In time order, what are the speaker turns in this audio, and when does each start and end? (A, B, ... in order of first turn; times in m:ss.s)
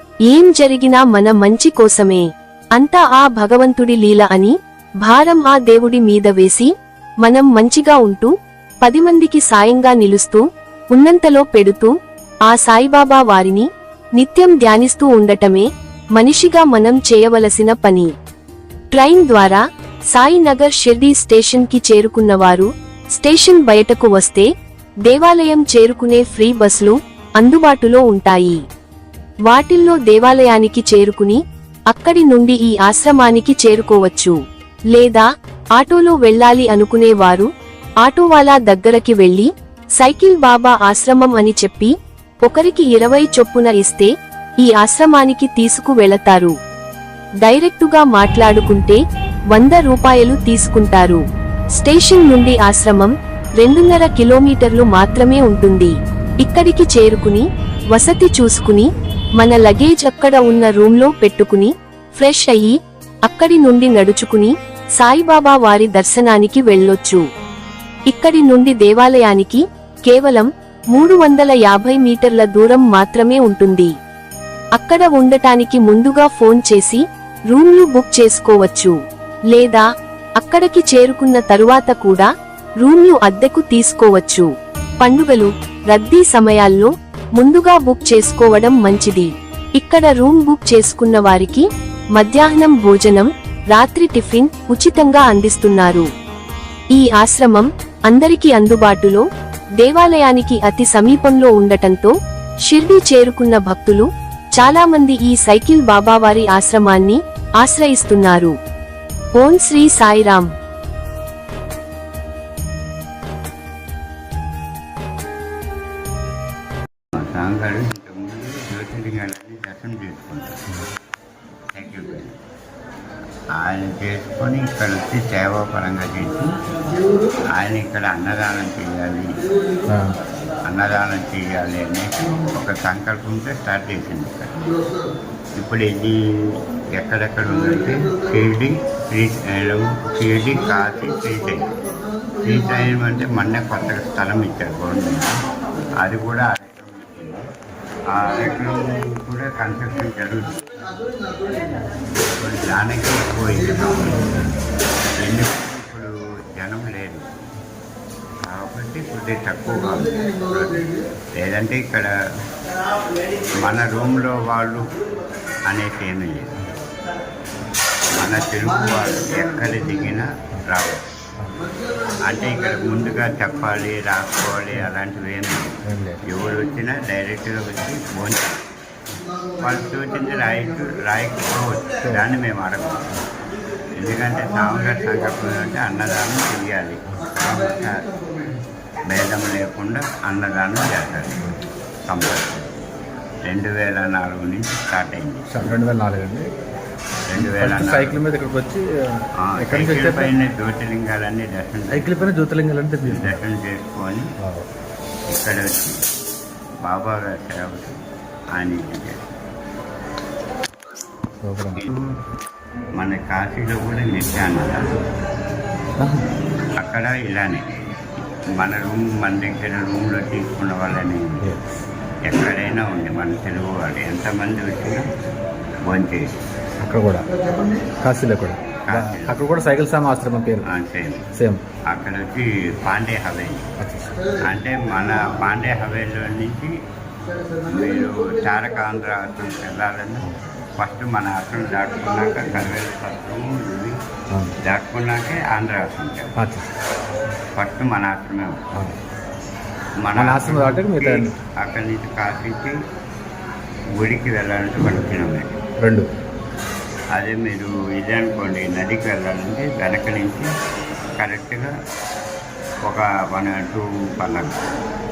0:00.3-0:06.7 A
0:07.2-0:08.3 A
0:08.8-0:10.4 A
0:10.9-0:11.9 A
0:12.5-0:13.7 A
0:14.2-0:18.1 A
0:18.9-0:19.6 A
0:20.1-0:24.5 A
0:25.1-0:28.6 A
0:29.5-0:31.4 A
0:31.9-0:34.4 A
0:34.9-0:37.5 A
0:38.0-0:41.9 A
0:42.4-0:44.1 A
0:44.6-0:46.5 A
0:47.4-0:49.0 A
0:49.5-0:51.2 A
0:51.8-1:02.8 A
1:03.3-1:07.2 A
1:08.1-1:13.9 A
1:14.8-1:19.0 A
1:19.5-1:19.8 A
1:20.4-1:22.3 A
1:22.8-1:24.5 A
1:25.0-1:31.6 A
1:32.2-1:36.1 A
1:36.9-1:39.2 A
1:39.8-1:42.1 A
1:42.7-1:48.5 A
1:49.4-1:50.5 A
1:57.1-2:00.6 B
2:01.8-2:02.3 B
2:03.5-2:06.6 B
2:07.5-2:09.4 B
2:09.9-2:10.1 C
2:10.6-2:14.6 B
2:15.6-2:16.2 B
2:16.9-2:21.7 B
2:22.4-2:25.4 B
2:26.0-2:27.5 B
2:28.1-2:30.8 B
2:32.1-2:34.3 B
2:35.2-2:37.3 B
2:38.4-2:42.2 B
2:43.5-2:44.9 B
2:45.6-2:46.6 B
2:48.2-2:51.0 B
2:52.2-2:58.7 B
2:55.9-2:56.2 C
2:59.6-3:03.0 B
3:04.0-3:08.1 B
3:09.1-3:11.5 B
3:12.0-3:12.7 B
3:13.5-3:15.5 B
3:15.5-3:16.5 C
3:17.3-3:18.2 B
3:17.4-3:20.3 C
3:19.4-3:22.3 B
3:21.9-3:23.4 C
3:23.0-3:24.3 B
3:25.3-3:26.0 B
3:26.8-3:28.0 B
3:28.5-3:29.2 B
3:31.4-3:31.9 C
3:31.8-3:32.0 B
3:33.0-3:34.8 B
3:36.0-3:36.3 C
3:36.8-3:37.7 B
3:38.6-3:41.5 B
3:41.4-3:41.8 C
3:42.3-3:45.1 B
3:45.9-3:46.3 B
3:46.8-3:47.2 C
3:48.0-3:50.6 C
3:48.8-3:49.5 B
3:50.7-3:51.3 B
3:51.4-3:51.6 C
3:51.9-3:53.7 B
3:53.8-3:54.2 C
3:54.4-3:56.7 B
3:57.7-4:04.0 B
4:04.6-4:06.3 B
4:06.4-4:06.7 C
4:07.6-4:08.6 B
4:10.0-4:12.8 B
4:10.2-4:11.3 C
4:14.0-4:15.6 B
4:15.8-4:16.1 C
4:17.1-4:20.5 B
4:21.2-4:21.7 B
4:22.8-4:24.7 B